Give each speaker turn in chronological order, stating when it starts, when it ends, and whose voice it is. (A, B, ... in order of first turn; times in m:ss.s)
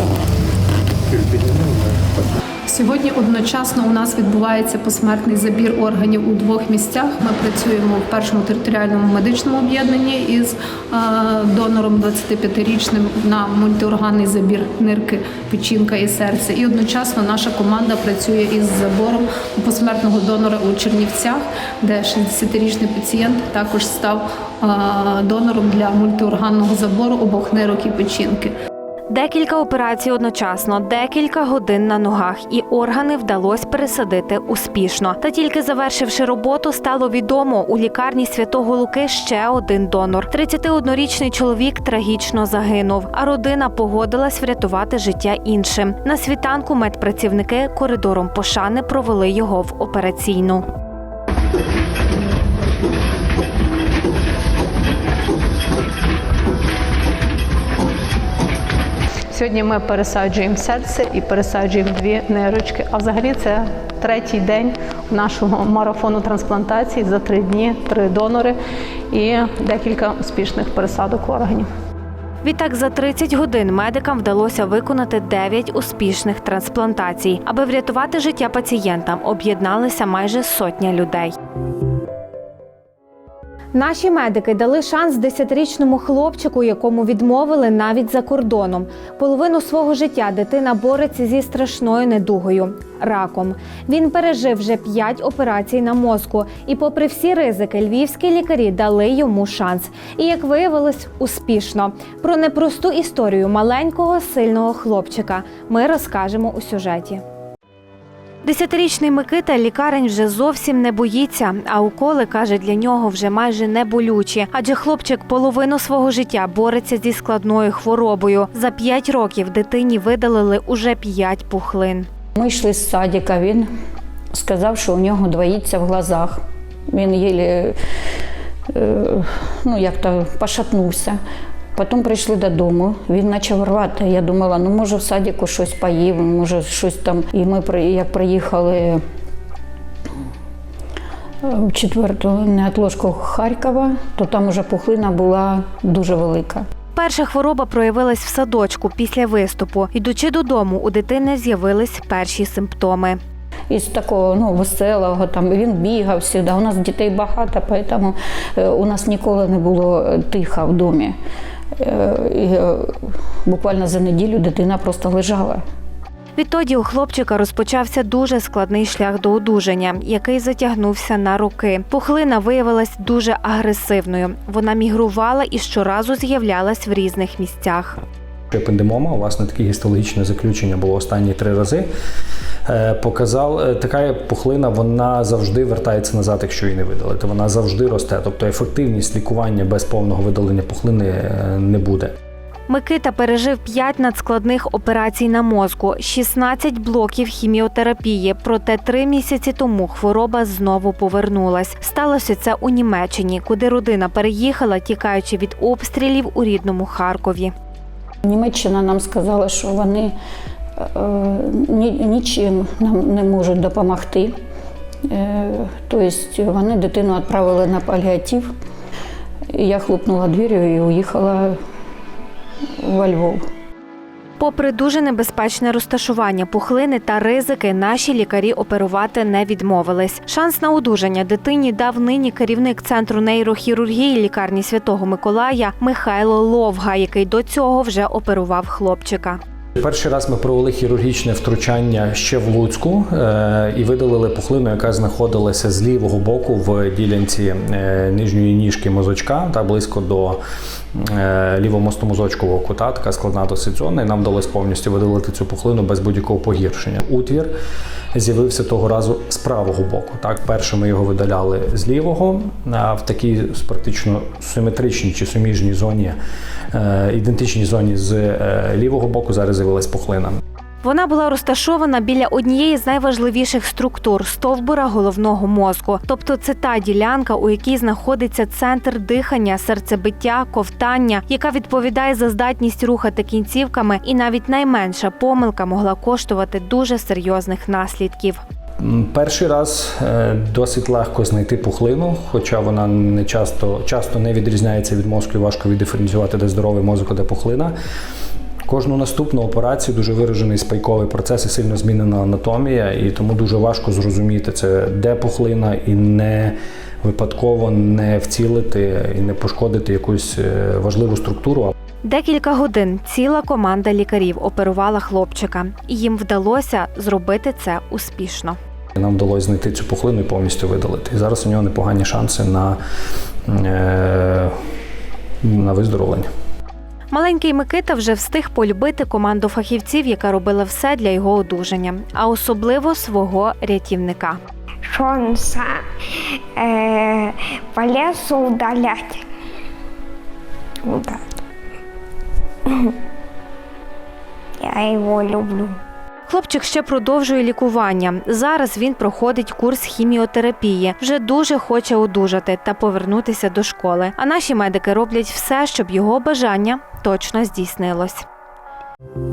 0:02.7-0:28.5 A
0:29.1-0:50.6 B
0:59.3-1:08.5 C
1:09.1-1:10.9 C
1:12.4-1:21.3 B
1:23.7-1:47.2 B
1:48.4-2:02.1 B
2:02.4-2:03.7 D
2:04.3-2:07.8 D
2:08.7-2:11.2 D
2:11.8-2:19.0 D
2:21.4-2:26.7 D
2:27.0-2:33.2 B
2:33.7-2:41.2 D
2:41.8-2:42.9 D
2:43.5-2:45.6 D
2:46.4-2:58.0 B
2:58.5-3:01.9 E
3:02.7-3:12.1 E
3:12.7-3:27.5 B
3:28.2-3:30.1 D
3:30.8-3:34.4 D
3:35.1-3:38.5 D
3:39.5-3:41.6 D
3:42.8-3:43.4 D
3:44.4-3:59.4 B
3:59.8-4:10.4 E
4:11.0-4:17.5 E
4:18.1-4:26.2 E
4:26.7-4:30.4 E
4:30.8-4:48.4 B
4:48.8-4:57.7 E
4:58.7-5:11.7 E
5:12.0-5:18.6 B
5:19.0-5:22.8 E
5:23.5-5:24.5 E
5:25.4-5:26.3 E
5:27.1-5:34.4 B
5:34.9-5:35.7 F
5:36.6-5:39.2 F
5:40.9-5:41.2 F
5:44.6-5:45.7 F
5:46.3-5:58.2 B